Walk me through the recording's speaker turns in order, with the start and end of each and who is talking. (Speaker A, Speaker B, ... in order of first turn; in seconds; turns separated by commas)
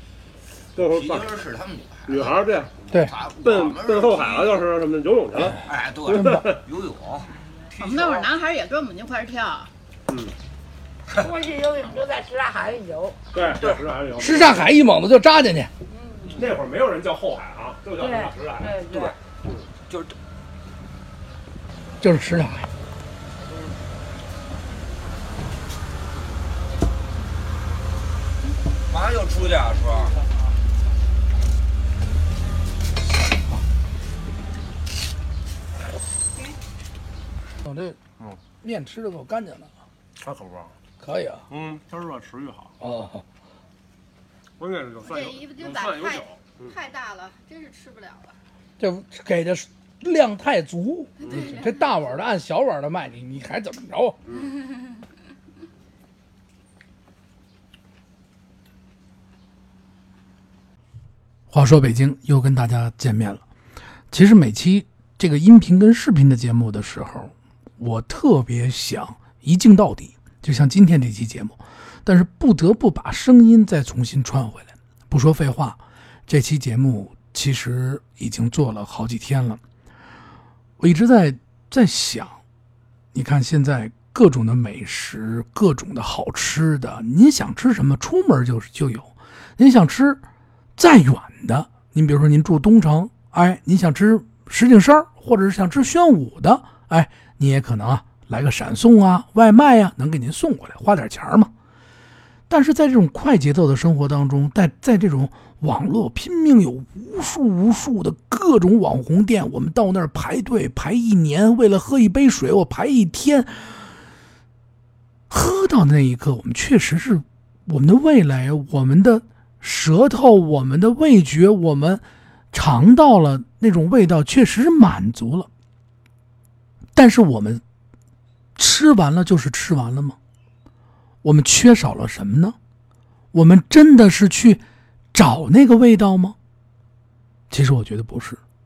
Speaker A: 0.8-1.4, Speaker B: 0.8-4.6, Speaker A: 2.1-2.8, Speaker A: 3.4-5.6, Speaker B: 5.6-8.4, Speaker C: 6.1-6.4, Speaker D: 7.8-9.7, Speaker A: 10.1-10.3, Speaker E: 11.2-13.4, Speaker A: 13.3-14.7, Speaker B: 13.5-13.8, Speaker C: 14.2-15.7, Speaker E: 15.9-16.4, Speaker A: 16.4-18.8, Speaker E: 18.0-19.1, Speaker B: 18.8-19.2, Speaker B: 19.9-20.2, Speaker C: 22.0-22.7, Speaker B: 28.9-30.2, Speaker C: 37.7-38.0, Speaker C: 38.6-39.7, Speaker A: 40.2-40.7, Speaker C: 41.0-41.5, Speaker A: 41.5-42.8, Speaker C: 42.8-43.2, Speaker A: 44.6-46.7, Speaker D: 45.0-48.4, Speaker C: 48.8-54.2, Speaker D: 51.2-52.2, Speaker A: 51.2-51.5, Speaker C: 61.5-63.4, Speaker C: 64.1-79.6, Speaker C: 80.8-82.4, Speaker C: 83.1-90.2, Speaker C: 90.8-101.5, Speaker C: 102.5-113.8, Speaker C: 115.3-125.5, Speaker C: 127.0-127.6, Speaker C: 128.6-130.2, Speaker C: 131.2-132.6, Speaker C: 133.3-134.6, Speaker C: 135.1-136.4, Speaker C: 137.5-138.4